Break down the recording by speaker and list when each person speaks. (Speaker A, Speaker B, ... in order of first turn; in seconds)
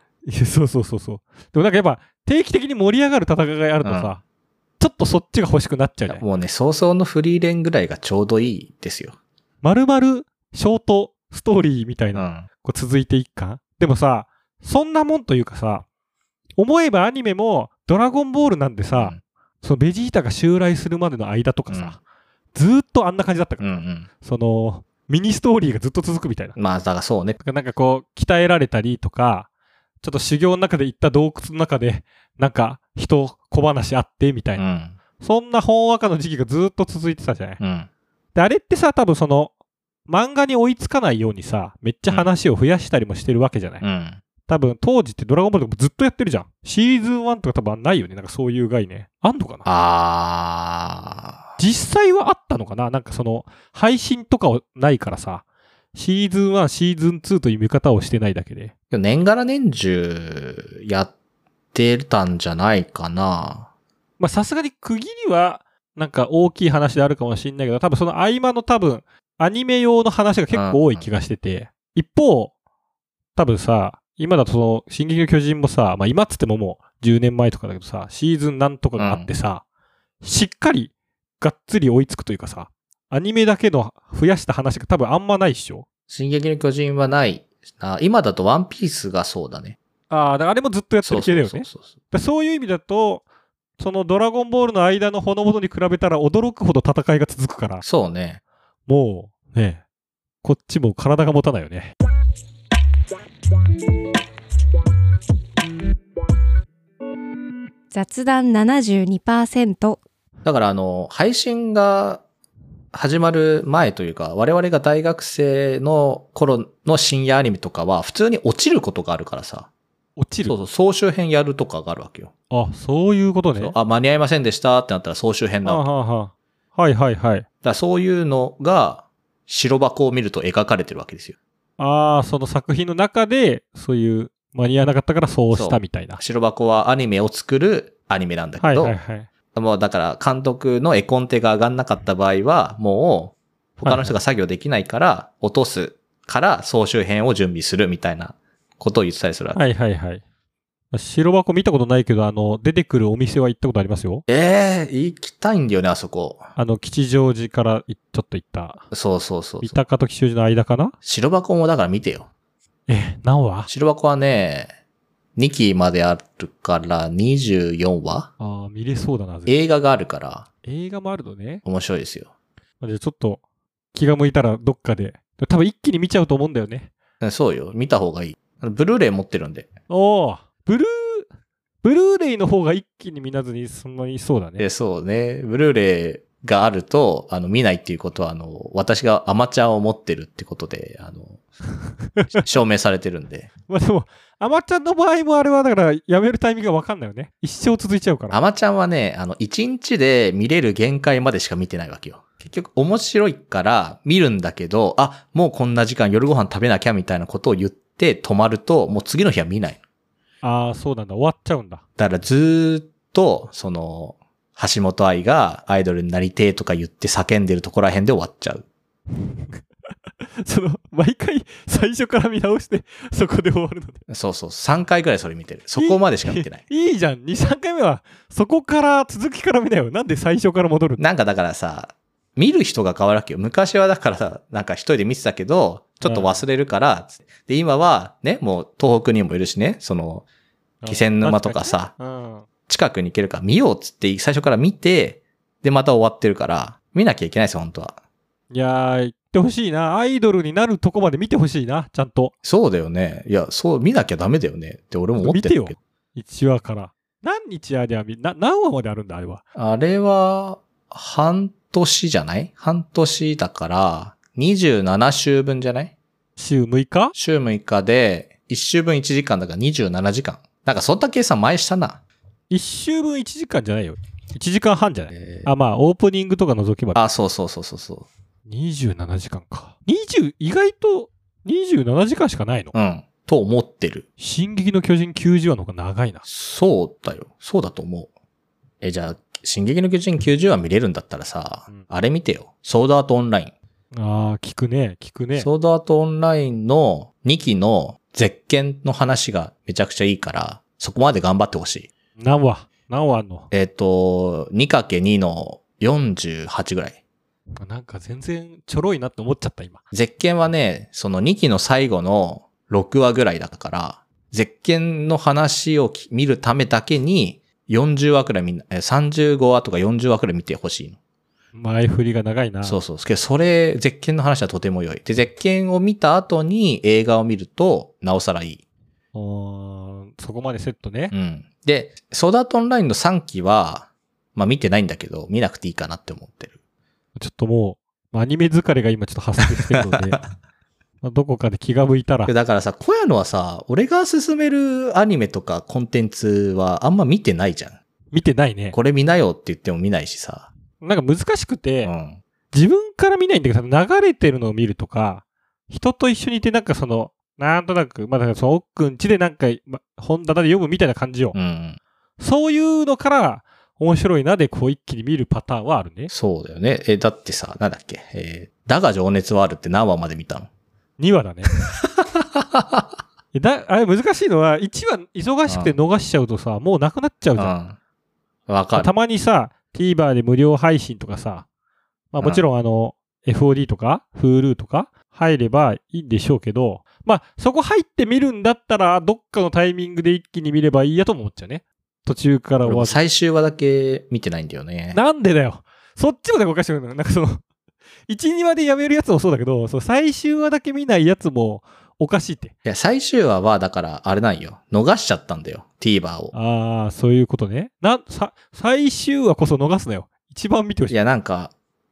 Speaker A: 0.3-4.2, 4.8-6.2, 9.6-15.8, 16.6-22.0, 22.5-26.6, 27.4-29.5, 30.0-34.6, 35.2-37.6, 38.4-39.5, 40.1-43.8, 44.5-49.6, 51.6-58.7, 64.2-72.5, 73.4-79.6, 80.2-85.9, 90.1-93.2, 93.8-97.8, 98.9-99.8, 100.4-101.9, 120.2-120.5, 122.5-123.8, 125.7-127.5, 131.8-136.2, 138.6-139.3, 143.8-144.1, 149.6-150.2, 150.9-154.2, 156.6-158.9, 159.6-161.0, 162.9-163.7, 168.4-169.5, 170.6-171.6, 172.8-173.4, 173.9-176.9, 179.9-181.3, 181.8-184.7, 192.0-192.4, 193.7-198.4, 210.4-211.8, 219.1-219.6, 220.4-224.0, 225.8-231.0, 236.0-236.4, 240.8-242.5, 248.5-252.3, 255.2-259.4, 266.4-267.1, 272.5-277.0, 278.5-282.7, 284.2-286.2, 293.9-295.5, 302.2-303.5, 307.6-309.8, 321.5-322.8, 329.1-331.1, 337.2-340.2, 341.0-342.3, 348.1-348.8, 350.8-351.9, 352.5-361.4, 362.2-366.1, 371.0-371.5, 373.3-377.5, 378.8-381.4, 382.1-393.0, 394.9-397.4, 398.1-402.5, 406.3-411.0
Speaker B: 3.8-4.2, 6.1-9.2, 12.2-12.5, 21.7-22.0, 23.6-24.1, 26.6-27.4, 34.6-35.0, 37.6-37.9, 43.8-44.2, 49.6-51.5, 58.9-61.1, 61.7-63.7, 70.5-71.1, 79.0-79.3, 86.1-89.8, 91.0-92.0, 97.8-98.4, 110.5-112.2, 112.9-119.7, 120.5-122.3, 123.6-125.8, 127.6-131.4, 135.5-138.9, 139.5-149.6, 154.3-156.5, 158.9-159.8, 161.0-162.3, 163.7-164.7, 165.4-168.3, 169.5-170.5, 171.6-172.3, 177.2-179.7, 184.6-191.4, 192.3-193.5, 198.3-209.8, 212.0-218.7, 224.1-226.6, 231.0-240.3, 240.9-241.9, 242.7-248.0, 252.4-255.8, 259.6-265.9, 267.2-272.0, 275.1-275.5, 276.9-278.1, 282.7-284.1, 286.3-288.1, 288.8-293.6, 295.4-301.9, 303.5-307.0, 309.9-321.0, 322.6-328.6, 331.1-336.5, 339.7-340.2, 342.3-347.8, 348.7-350.5, 351.8-352.2, 361.3-361.8, 366.1-370.5, 371.5-372.9, 375.5-375.8, 377.4-377.8, 378.5-378.9, 392.6-395.0, 402.6-406.3, 410.9-411.5
Speaker C: 107.9-110.0